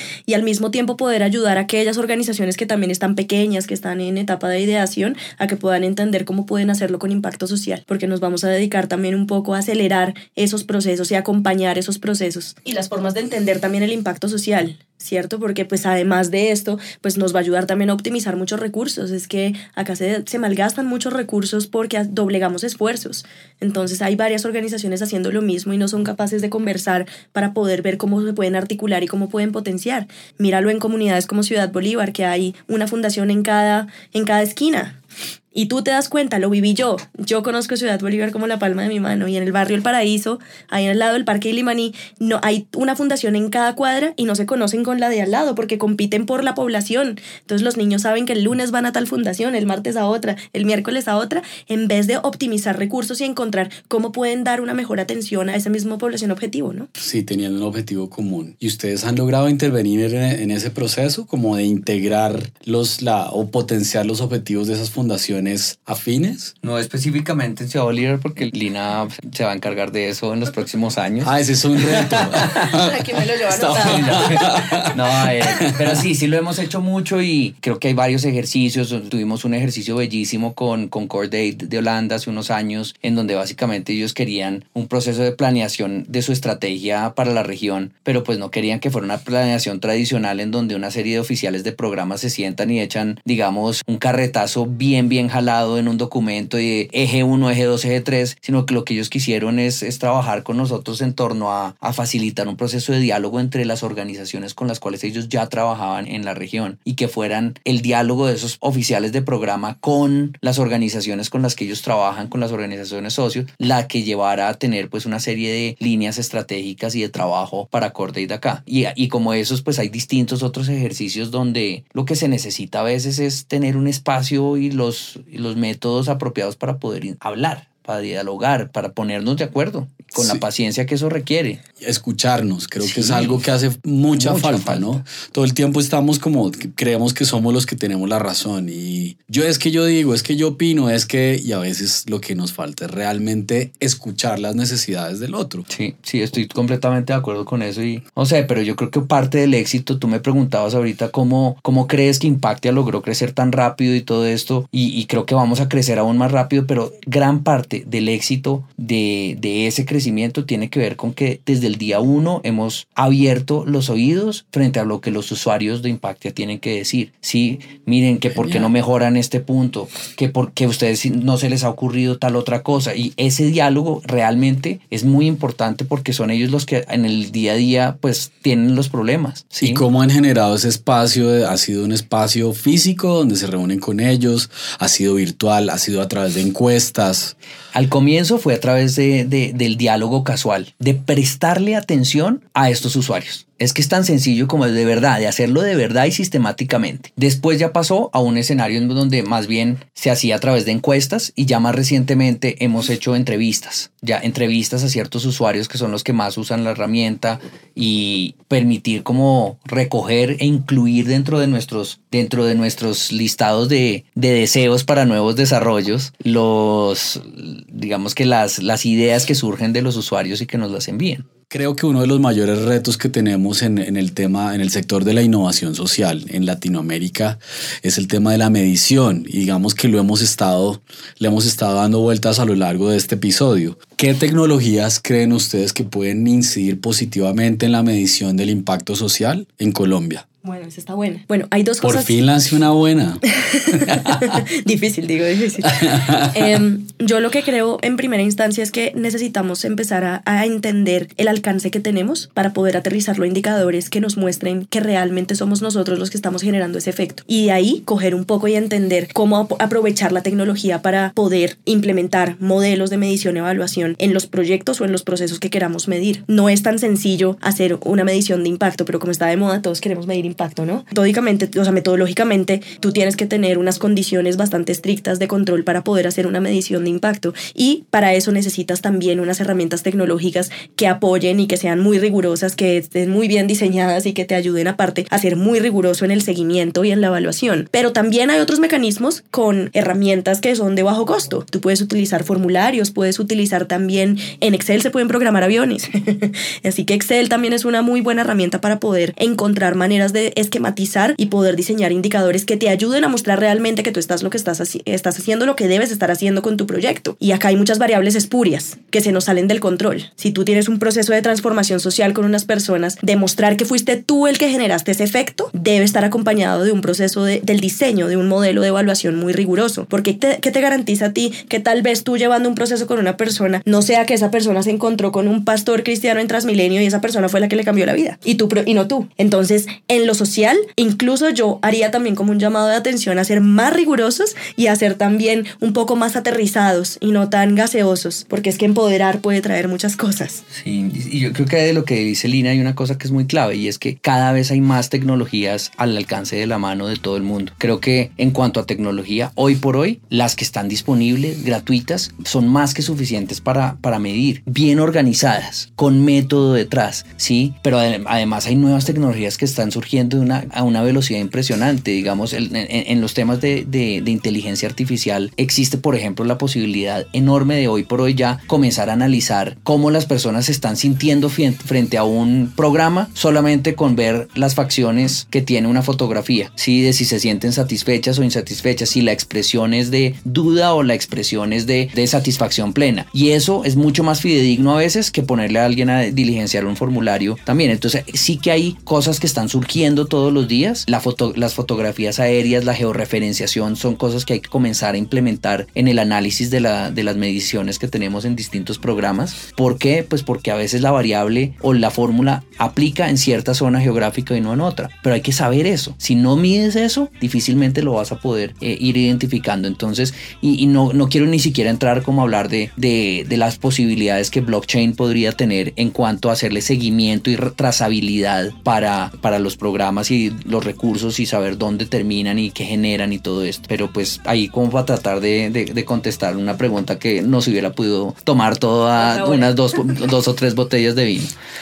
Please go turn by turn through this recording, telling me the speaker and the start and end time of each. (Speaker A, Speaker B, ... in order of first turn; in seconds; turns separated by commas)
Speaker A: 0.3-35.0, Speaker A: 35.5-56.9, Speaker B: 57.0-66.5, Speaker C: 66.6-72.7, Speaker B: 71.2-76.0, Speaker A: 72.7-74.4, Speaker C: 73.7-131.6, Speaker B: 130.1-130.4, Speaker B: 131.8-145.7, Speaker C: 132.8-133.4, Speaker C: 134.1-135.0, Speaker C: 145.7-179.8, Speaker B: 168.3-168.7, Speaker B: 179.6-187.3, Speaker C: 187.7-221.3, Speaker B: 221.5-240.2, Speaker A: 240.4-242.2, Speaker B: 241.8-243.2, Speaker A: 243.3-340.4, Speaker B: 243.8-244.4, Speaker B: 245.6-246.6, Speaker C: 340.5-431.3, Speaker A: 429.0-429.5